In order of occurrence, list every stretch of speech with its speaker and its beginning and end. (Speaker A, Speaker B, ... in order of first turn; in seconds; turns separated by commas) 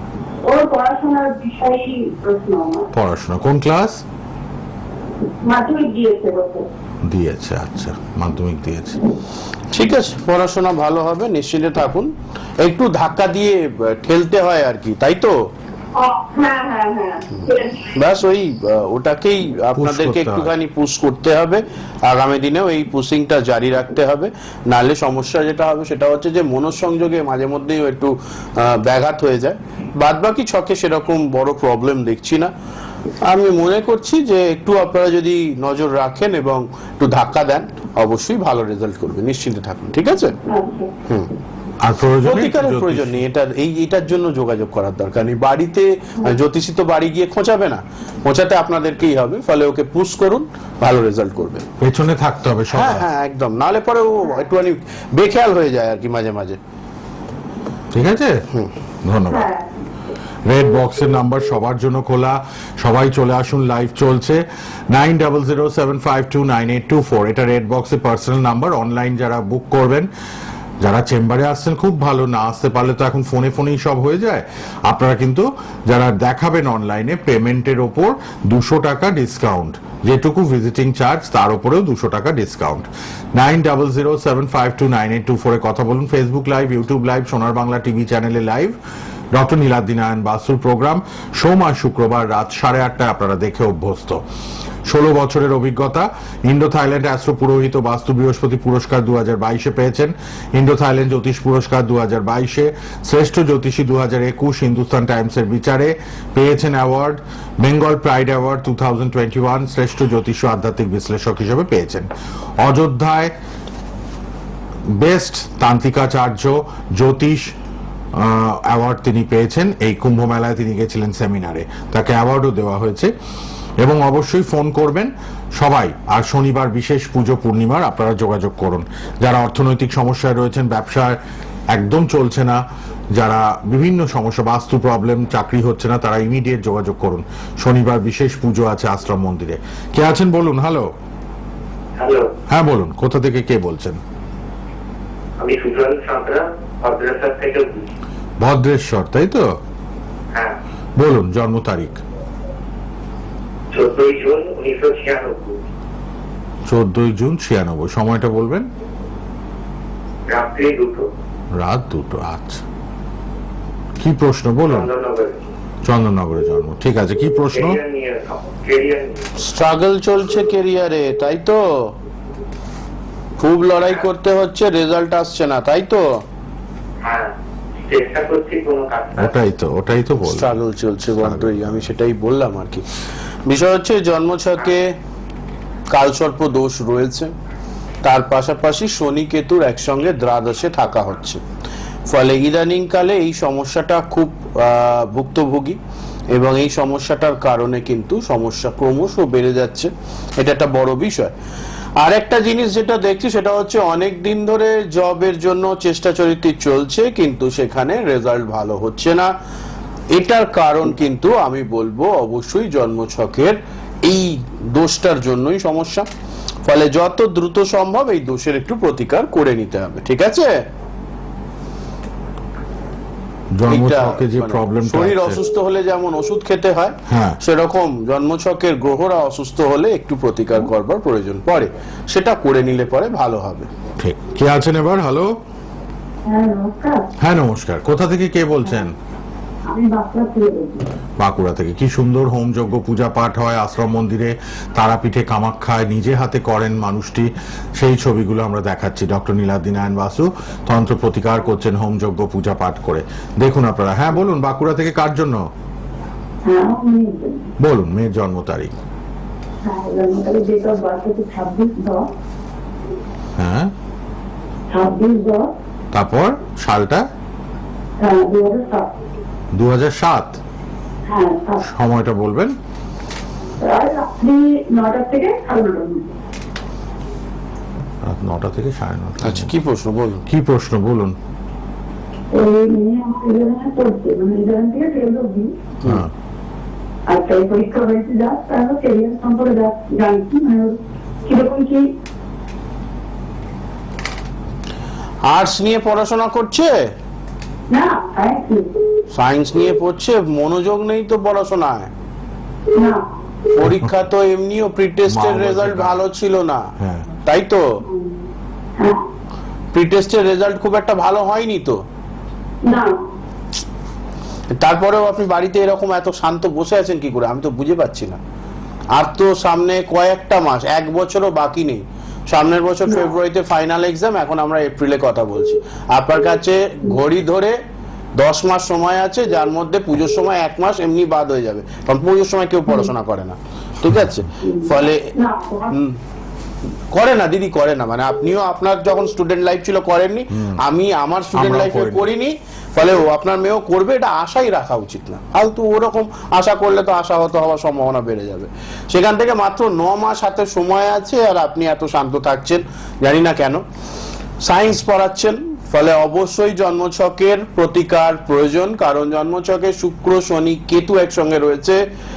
Speaker A: 0.4-2.9, Speaker B: 2.9-4.0, Speaker A: 5.4-6.7, Speaker B: 7.0-9.0, Speaker C: 9.7-15.3, Speaker A: 15.9-17.9, Speaker C: 17.4-32.5, Speaker B: 19.8-20.5, Speaker C: 33.2-40.4, Speaker A: 40.5-40.9, Speaker B: 41.8-43.2, Speaker C: 42.2-51.7, Speaker B: 51.8-53.1, Speaker C: 52.7-56.6, Speaker B: 57.9-58.4, Speaker B: 59.0-59.5, Speaker A: 59.3-59.7, Speaker B: 60.5-70.1, Speaker B: 70.8-88.8, Speaker B: 89.3-94.2, Speaker B: 94.9-113.3, Speaker B: 115.0-117.5, Speaker B: 118.1-123.1, Speaker B: 123.8-131.2, Speaker B: 131.7-132.6, Speaker B: 133.1-140.9, Speaker D: 142.0-142.3, Speaker B: 142.5-144.0, Speaker D: 145.4-147.9, Speaker B: 148.4-149.5, Speaker B: 151.0-152.0, Speaker D: 153.7-155.6, Speaker B: 156.7-158.7, Speaker D: 160.3-161.1, Speaker B: 161.5-162.6, Speaker B: 164.0-164.9, Speaker D: 164.7-165.4, Speaker B: 165.8-167.8, Speaker D: 167.5-169.3, Speaker C: 169.4-171.9, Speaker C: 173.4-176.1, Speaker D: 177.0-177.3, Speaker D: 177.8-179.4, Speaker B: 179.2-181.9, Speaker C: 180.2-182.8, Speaker C: 183.5-184.9, Speaker C: 185.9-187.3, Speaker C: 188.0-191.4, Speaker C: 192.1-195.8, Speaker C: 196.3-201.3, Speaker C: 202.0-209.3, Speaker C: 210.1-216.1, Speaker C: 216.7-220.6, Speaker B: 223.6-225.4, Speaker C: 223.7-233.7, Speaker B: 227.1-227.4, Speaker B: 234.0-235.4, Speaker A: 236.2-237.1, Speaker B: 237.2-238.9, Speaker A: 239.7-240.9, Speaker B: 241.2-255.4, Speaker A: 256.5-257.5, Speaker B: 257.6-258.8, Speaker A: 259.6-262.1, Speaker B: 263.4-263.7, Speaker A: 264.7-265.5, Speaker B: 265.9-267.1, Speaker A: 268.0-268.9, Speaker B: 269.5-270.4, Speaker A: 271.1-271.6, Speaker B: 271.6-272.6, Speaker A: 273.6-276.1, Speaker B: 278.0-279.5, Speaker C: 279.2-280.2, Speaker B: 280.3-281.2, Speaker A: 282.3-285.5, Speaker B: 285.9-286.1, Speaker A: 287.1-291.9, Speaker C: 295.3-296.8, Speaker A: 297.7-298.7, Speaker C: 299.1-301.9, Speaker A: 302.8-303.0, Speaker C: 303.5-307.7, Speaker B: 303.6-303.9, Speaker B: 305.1-306.0, Speaker B: 306.8-307.1, Speaker A: 307.9-308.2, Speaker A: 308.8-309.0, Speaker C: 309.7-311.8, Speaker A: 312.6-313.0, Speaker C: 314.5-318.2, Speaker C: 318.9-327.6, Speaker C: 328.2-335.1, Speaker B: 333.9-334.2, Speaker A: 334.4-335.8, Speaker C: 335.7-336.0, Speaker C: 336.9-353.6, Speaker B: 340.3-340.6, Speaker B: 341.3-342.1, Speaker C: 354.4-361.8